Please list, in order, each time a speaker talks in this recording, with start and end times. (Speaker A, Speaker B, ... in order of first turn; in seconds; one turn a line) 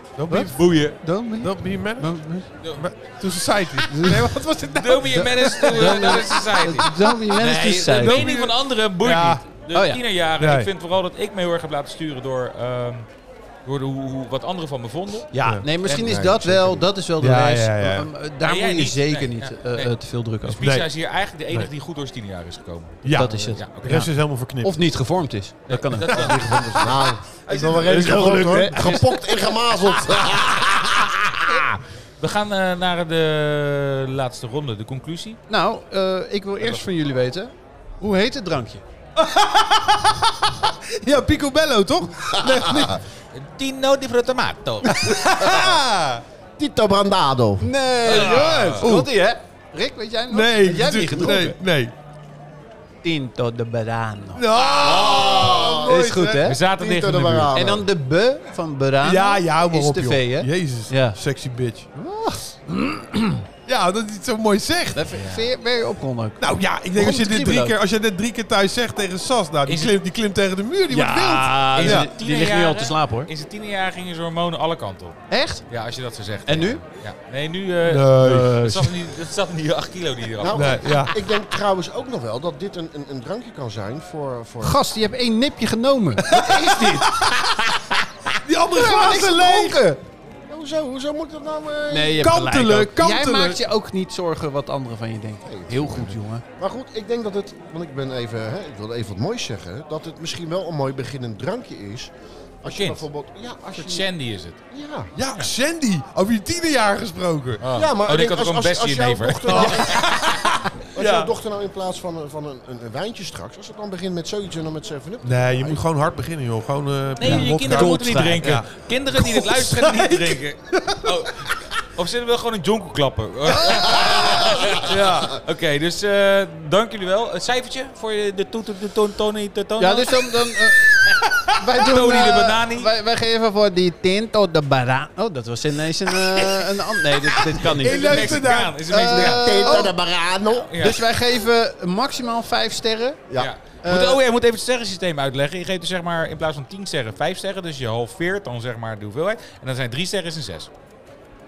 Speaker A: 0.2-0.6
Speaker B: 0.3-2.5
Speaker C: 0.3-1.0
Speaker A: 1.4-7.3
Speaker C: 2.6-2.9
Speaker B: 3.9-4.3
Speaker C: 4.7-13.1
Speaker B: 5.7-8.3
Speaker A: 7.9-9.4
Speaker B: 9.7-10.0
Speaker A: 10.4-10.7
Speaker C: 13.6-15.3
Speaker B: 15.3-20.6
Speaker D: 15.8-16.9
Speaker A: 17.2-18.1
Speaker C: 18.4-19.9
Speaker C: 20.4-24.1
Speaker A: 20.5-20.9
Speaker A: 23.0-24.8
Speaker B: 23.1-29.2
Speaker C: 25.7-26.6
Speaker D: 26.1-31.6
Speaker A: 27.5-29.1
Speaker C: 31.5-35.4
Speaker B: 35.5-38.8
Speaker A: 39.2-43.0
Speaker D: 42.4-43.0
Speaker C: 43.3-45.1
Speaker A: 44.8-46.2
Speaker D: 45.3-45.8
Speaker D: 46.6-47.7
Speaker B: 47.6-51.6
Speaker C: 48.0-48.9
Speaker A: 48.8-49.1
Speaker A: 50.3-51.9
Speaker B: 53.0-56.6
Speaker A: 54.3-56.4
Speaker C: 54.8-55.8
Speaker D: 54.8-57.9
Speaker C: 56.4-57.5
Speaker B: 57.5-61.2
Speaker A: 59.0-61.9
Speaker B: 61.9-63.4
Speaker A: 63.6-65.0
Speaker B: 64.9-66.4
Speaker C: 65.1-65.5
Speaker A: 66.4-72.1
Speaker B: 66.9-67.8
Speaker C: 69.7-69.9
Speaker B: 70.9-73.3
Speaker C: 71.7-80.9
Speaker B: 75.3-75.6
Speaker B: 76.5-76.8
Speaker A: 77.8-78.9
Speaker B: 78.2-78.5
Speaker D: 80.4-84.8
Speaker A: 80.5-81.1
Speaker B: 84.6-87.9
Speaker A: 86.2-87.6
Speaker A: 88.4-89.8
Speaker B: 88.7-90.0
Speaker D: 90.5-92.3
Speaker B: 91.9-96.4
Speaker A: 92.2-93.6
Speaker D: 95.4-102.1
Speaker D: 102.6-104.1
Speaker C: 102.6-103.0
Speaker C: 103.7-104.6
Speaker D: 104.7-105.1
Speaker A: 105.1-107.6
Speaker C: 107.6-110.0
Speaker D: 107.7-110.2
Speaker A: 109.5-111.3
Speaker D: 110.9-115.8
Speaker A: 115.2-121.6
Speaker C: 117.2-132.9
Speaker B: 117.2-118.6
Speaker A: 123.5-125.4
Speaker D: 123.9-125.2
Speaker B: 129.8-131.0
Speaker B: 131.6-139.9
Speaker C: 136.4-139.9
Speaker A: 137.8-139.1
Speaker D: 139.2-140.7
Speaker C: 140.5-141.0
Speaker B: 140.8-143.2
Speaker C: 143.4-150.7
Speaker B: 143.8-144.2